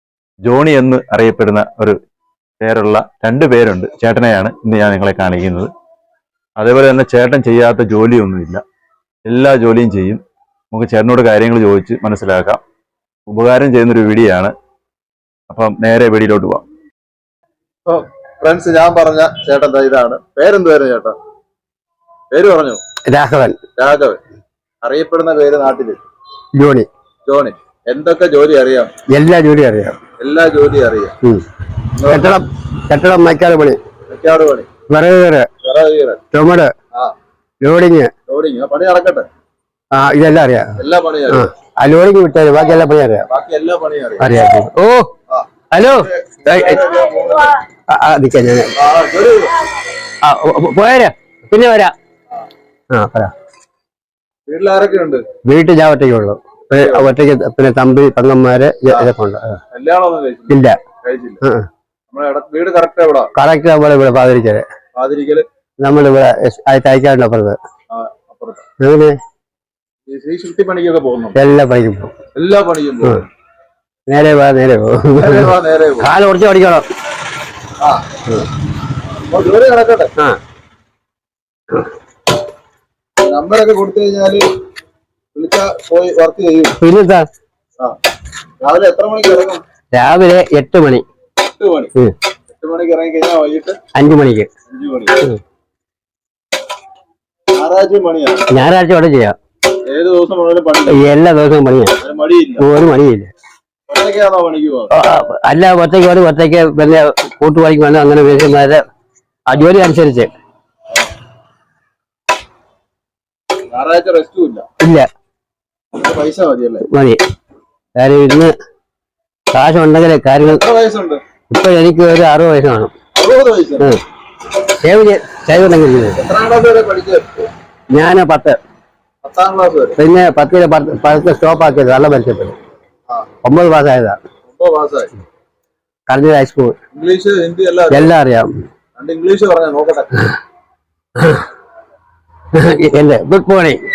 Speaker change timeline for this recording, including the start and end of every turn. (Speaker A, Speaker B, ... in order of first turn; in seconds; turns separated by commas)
Speaker A: 0.4-2.0, Speaker A: 2.6-5.7, Speaker A: 6.6-8.6, Speaker A: 9.3-10.2, Speaker A: 10.7-12.6, Speaker A: 13.3-14.5, Speaker A: 15.5-16.6, Speaker B: 17.9-21.2, Speaker B: 22.3-22.8, Speaker C: 23.1-23.6, Speaker B: 23.8-24.2, Speaker B: 24.8-26.0, Speaker C: 26.6-26.9, Speaker B: 27.3-28.9, Speaker C: 29.1-30.0, Speaker B: 30.2-31.1, Speaker B: 32.0-32.3, Speaker C: 32.1-33.8, Speaker B: 34.1-34.7, Speaker C: 34.9-35.5, Speaker B: 35.6-36.2, Speaker C: 36.3-36.7, Speaker C: 37.6-38.1, Speaker B: 38.3-39.3, Speaker C: 39.9-40.8, Speaker B: 40.8-41.5, Speaker C: 41.3-43.3, Speaker B: 43.3-44.3, Speaker C: 44.2-45.1, Speaker B: 45.3-47.5, Speaker C: 45.7-46.8, Speaker C: 47.9-48.7, Speaker B: 48.8-49.5, Speaker C: 50.2-51.9, Speaker C: 52.9-53.3, Speaker B: 54.5-55.2, Speaker C: 55.5-59.6, Speaker B: 56.7-57.1, Speaker B: 59.7-61.4, Speaker C: 60.5-60.8, Speaker B: 62.1-63.3, Speaker C: 63.4-64.7, Speaker B: 65.0-65.5, Speaker C: 65.8-67.6, Speaker B: 67.9-68.7, Speaker C: 68.8-69.2, Speaker B: 70.1-71.4, Speaker C: 71.3-72.1, Speaker B: 72.4-73.3, Speaker C: 74.1-76.8, Speaker B: 75.2-76.1, Speaker B: 79.3-80.1, Speaker B: 83.2-84.4, Speaker B: 85.3-86.8, Speaker C: 86.8-87.3, Speaker B: 88.6-89.6, Speaker C: 89.9-91.0, Speaker B: 91.4-91.9, Speaker B: 92.5-93.8, Speaker C: 94.0-94.5, Speaker B: 94.7-95.3, Speaker B: 97.5-98.6, Speaker C: 98.5-99.4, Speaker B: 99.9-101.1, Speaker C: 100.9-101.9, Speaker B: 102.0-102.7, Speaker C: 102.6-103.3, Speaker B: 103.9-104.9, Speaker C: 104.9-108.8, Speaker C: 109.5-110.3, Speaker B: 113.7-114.7, Speaker C: 114.8-115.1, Speaker B: 116.0-116.9, Speaker C: 116.9-117.2, Speaker C: 118.0-118.5, Speaker C: 119.5-120.6, Speaker B: 120.4-121.2, Speaker C: 121.5-122.9, Speaker B: 123.2-124.0, Speaker C: 124.8-126.2, Speaker B: 126.2-127.5, Speaker C: 127.9-128.6, Speaker B: 129.2-130.0, Speaker C: 130.0-132.6, Speaker C: 133.4-134.2, Speaker B: 134.5-135.1, Speaker C: 136.1-136.8, Speaker B: 136.9-138.1, Speaker C: 137.9-138.5, Speaker B: 139.0-140.1, Speaker C: 141.2-141.4, Speaker C: 142.5-143.8